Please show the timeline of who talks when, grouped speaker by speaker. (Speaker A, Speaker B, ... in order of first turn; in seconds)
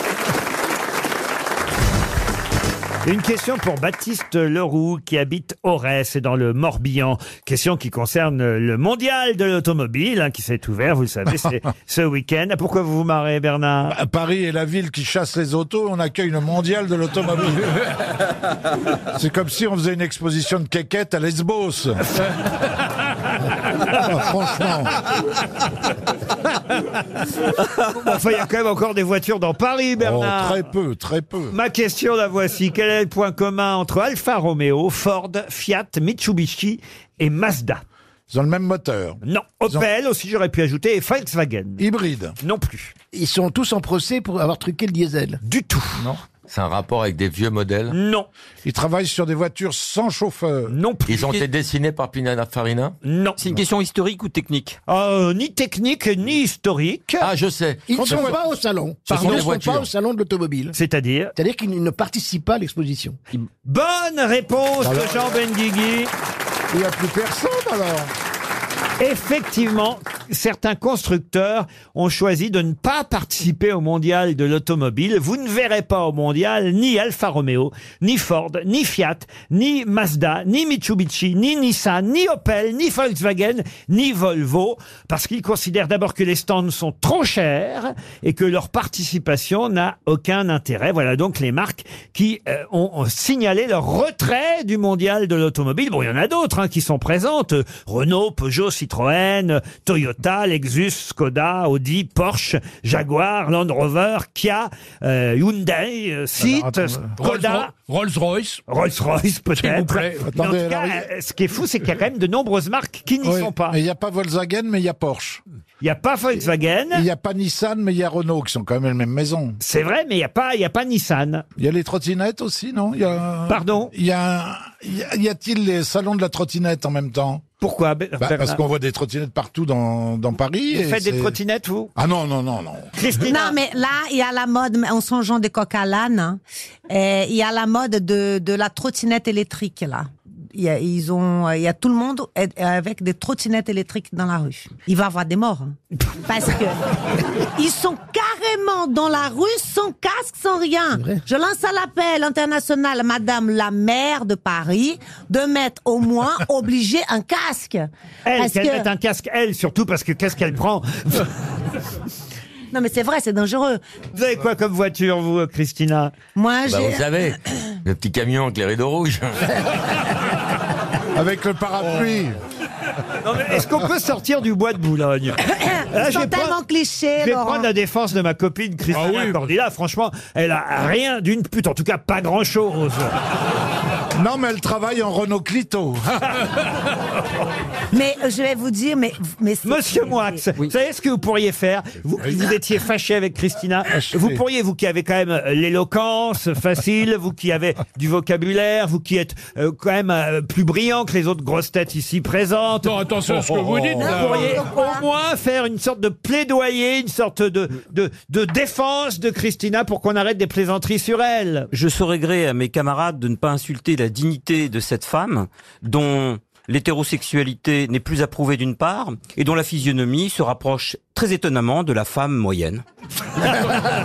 Speaker A: 3.0-14.0, 27.9-30.6, 31.5-37.8, 39.2-41.8, 42.4-42.9, 45.4-46.1, 47.9-48.3, 50.7-51.4, 53.0-53.4, 54.9-57.3, 60.7-61.3, 63.6-66.1, 69.0-107.7, 108.7-113.8, 115.8-117.0, 119.6-121.5, 123.5-123.9, 127.6-128.6, 130.7-131.9, 132.9-133.6, 158.2-161.3, 164.1-166.1, 173.2-175.4, 175.9-176.6, 177.2-183.1, 189.6-203.0, 204.0-211.7
Speaker B: 13.9-17.8, 19.1-22.0, 24.0-24.9, 30.0-31.6, 38.3-39.9, 41.8-42.3, 48.6-50.7, 64.8-65.4, 66.7-68.1, 106.4-107.0, 110.2-111.1, 113.2-115.4, 116.9-119.6, 121.6-127.4, 128.2-131.3, 131.9-132.9, 171.1-172.3, 184.2-186.2, 193.9-194.4, 203.3-204.0
Speaker C: 43.1-45.4, 57.9-60.8, 61.4-63.2
Speaker D: 46.5-47.9, 51.1-53.0, 57.2-58.3, 59.1-59.9, 166.7-169.4
Speaker E: 53.4-54.8, 211.7-222.8
Speaker F: 107.2-108.6, 109.6-110.3, 178.9-179.4, 202.8-204.6
Speaker G: 133.2-146.8, 147.5-158.9, 162.7-163.8, 166.3-167.0, 175.5-177.7, 187.9-190.4, 204.1-205.0